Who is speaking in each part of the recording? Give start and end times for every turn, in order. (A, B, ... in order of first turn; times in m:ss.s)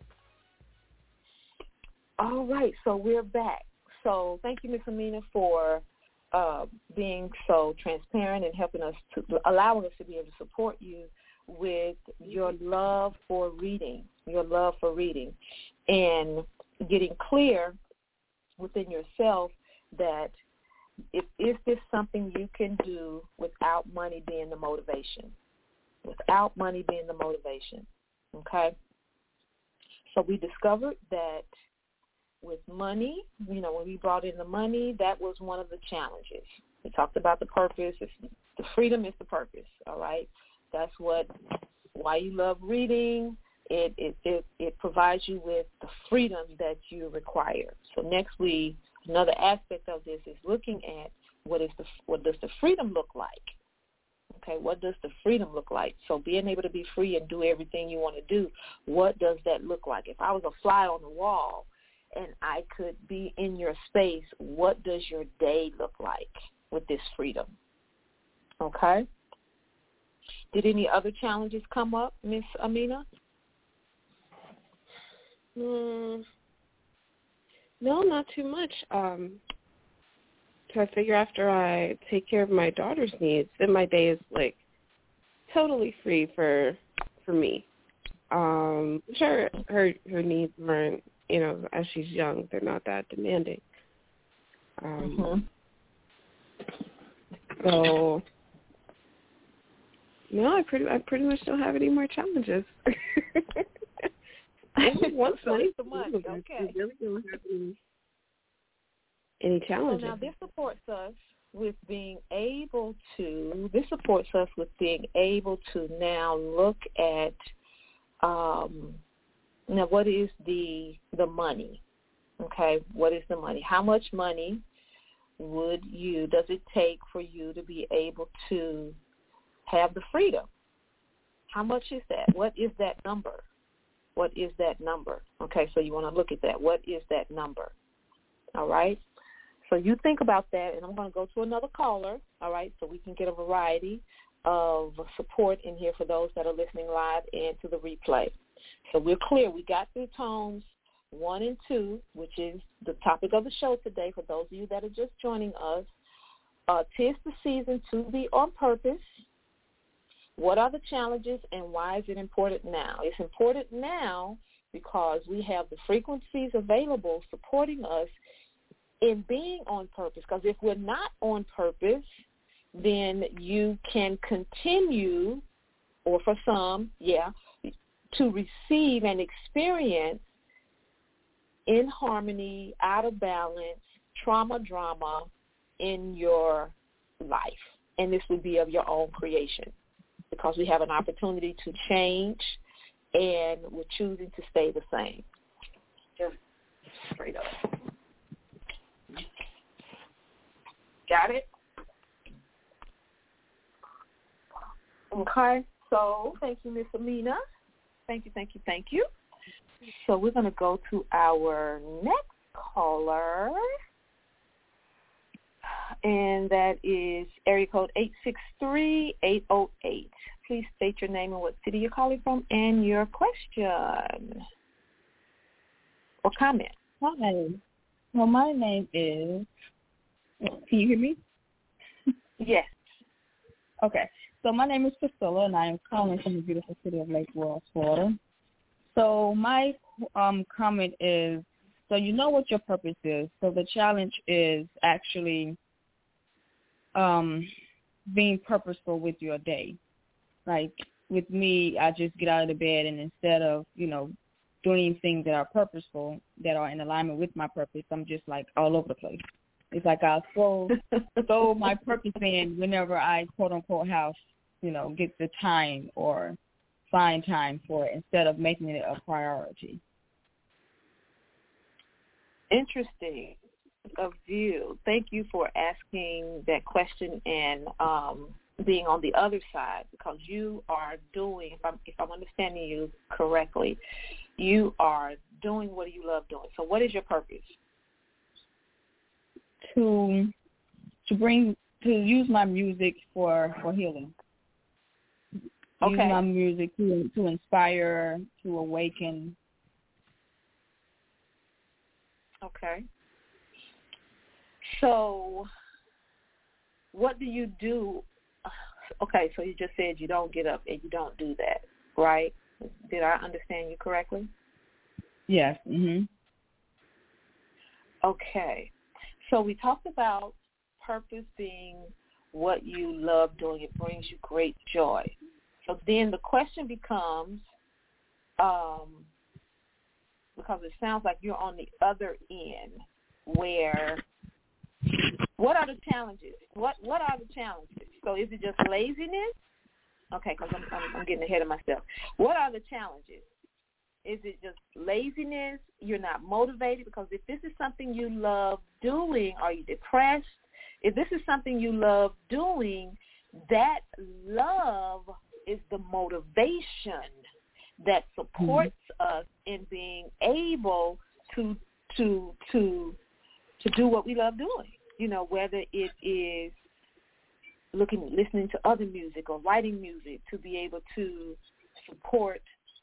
0:02.2-0:15.3 A
0:15.9-0:17.8 A
0:18.6-0:20.3 A
0:21.1-0:25.3 A
0:26.0-0:28.7 A
0:30.1-0:31.5 A
0:32.4-0:41.3 A
0:41.9-0:53.5 A
0:54.3-1:07.5 A
1:08.6-1:09.0 A
1:10.5-1:13.0 A
1:15.6-1:16.2 B
1:17.8-1:19.4 B
1:20.7-1:24.6 B
1:25.5-1:27.7 B
1:28.3-1:33.6 B
1:34.8-1:35.4 B
1:35.0-1:35.4 A
1:37.6-1:38.2 B
1:40.3-1:43.6 B
1:44.8-1:47.8 B
1:44.8-1:46.7 A
1:49.4-1:50.2 B
1:49.9-1:57.4 A
1:58.2-1:59.0 A
1:59.7-2:01.8 A
2:02.4-2:04.6 A
2:05.4-2:09.0 A
2:09.6-2:10.5 A
2:11.5-2:13.4 A
2:14.2-2:17.7 A
2:18.5-2:19.0 A
2:19.7-2:28.3 A
2:28.9-2:35.9 A
2:36.7-2:39.1 A
2:40.4-2:48.1 A
2:49.0-2:52.1 A
2:52.7-2:55.4 A
2:56.0-3:00.2 A
3:01.7-3:05.3 A
3:05.8-3:09.7 A
3:10.3-3:12.6 A
3:13.1-3:15.2 A
3:17.0-3:17.6 A
3:21.1-3:21.5 A
3:25.1-3:27.4 A
3:28.1-3:29.1 A
3:29.9-3:33.6 A
3:36.0-3:44.4 A
3:46.2-3:46.7 A
3:47.0-3:47.6 C
3:48.1-3:49.5 C
3:50.4-3:51.2 C
3:52.4-3:52.7 A
3:53.8-3:58.2 C
3:58.9-4:05.6 C
4:06.9-4:07.5 C
4:08.1-4:09.8 C
4:10.4-4:20.7 C
4:21.2-4:21.6 A
4:21.3-4:26.4 C
4:26.9-4:29.8 C
4:32.5-4:33.4 A
4:34.0-4:43.8 A
4:44.4-4:47.6 A
4:49.7-4:50.3 C
4:51.0-4:54.1 C
4:55.8-4:56.2 A
4:55.8-4:59.4 C
5:02.4-5:02.8 A
5:04.7-5:05.5 A
5:06.9-5:14.3 A
5:15.3-5:16.1 C
5:18.0-5:18.7 A
5:19.2-5:25.1 A
5:25.6-5:27.4 A
5:28.4-5:29.1 A
5:30.4-5:34.0 A
5:35.4-5:39.3 A
5:40.1-5:43.2 A
5:44.0-5:53.0 A
5:53.5-5:57.1 A
5:57.8-6:03.0 A
5:58.4-5:58.7 C
6:03.6-6:06.6 A
6:07.7-6:12.4 A